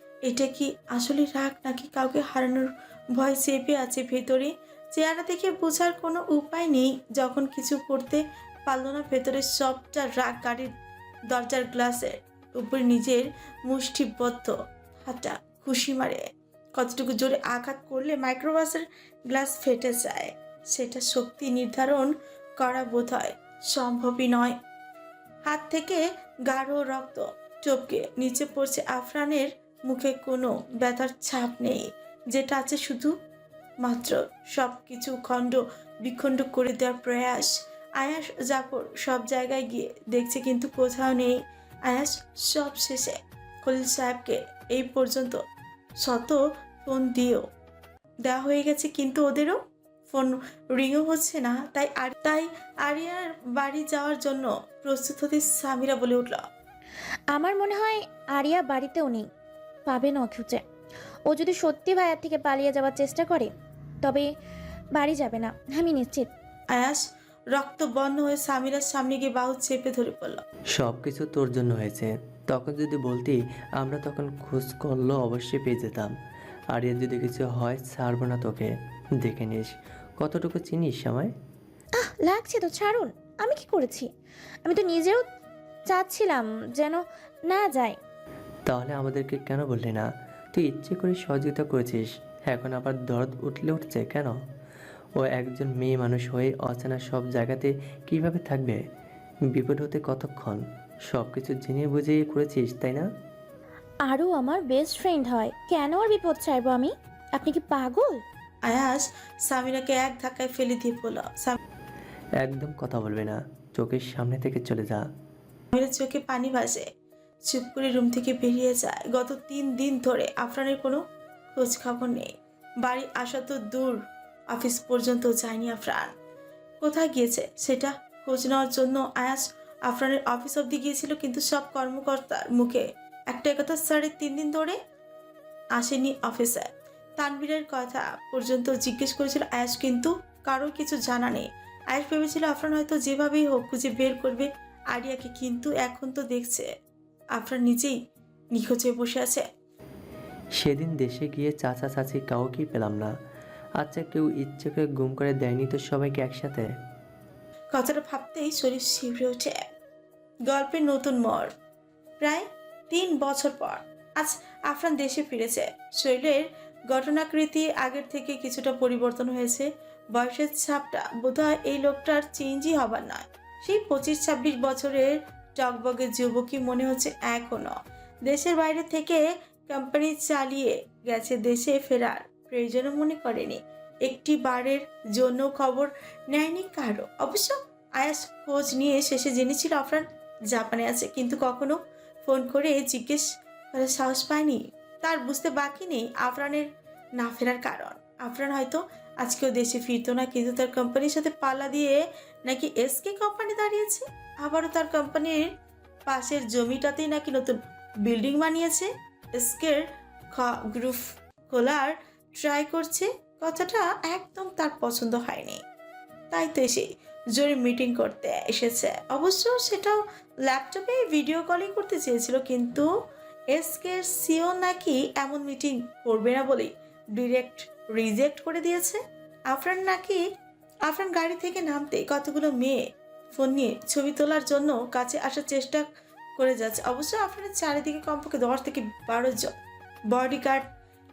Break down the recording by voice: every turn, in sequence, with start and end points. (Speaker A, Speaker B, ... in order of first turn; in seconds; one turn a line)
Speaker A: 0.2-10.7
Speaker A: 11.3-24.6
Speaker A: 25.4-33.1
Speaker A: 33.8-45.4
Speaker A: 46.0-47.4
Speaker A: 48.2-49.6
Speaker A: 50.1-56.4
Speaker B: 57.3-59.2
Speaker B: 59.9-60.6
Speaker B: 61.3-63.5
Speaker B: 64.0-64.3
Speaker B: 64.9-66.3
Speaker A: 66.7-70.4
Speaker C: 70.8-76.1
Speaker C: 76.7-81.3
Speaker B: 82.0-84.1
Speaker B: 84.6-85.2
Speaker B: 85.9-88.0
Speaker C: 88.7-94.3
Speaker C: 95.2-98.8
Speaker C: 99.5-103.1
Speaker B: 104.1-108.2
Speaker A: 108.6-111.6
Speaker C: 112.4-115.0
Speaker A: 115.7-116.9
Speaker A: 117.4-121.0
Speaker A: 121.5-122.3
Speaker A: 122.8-126.1
Speaker A: 126.8-134.8
Speaker A: 135.7-146.7
Speaker A: 147.3-148.0
Speaker A: 148.5-149.4
Speaker C: 150.6-153.1
Speaker C: 153.8-156.7
Speaker A: 157.7-159.6
Speaker A: 160.4-161.5
Speaker A: 162.2-196.7
Speaker A: 197.2-205.5
Speaker A: 206.1-209.8
Speaker A: 210.3-215.6
Speaker A: 216.3-222.8
Speaker A: 223.5-230.2
Speaker A: 230.8-232.8
Speaker A: 233.3-235.8
Speaker A: 236.4-239.5
Speaker A: 240.1-240.7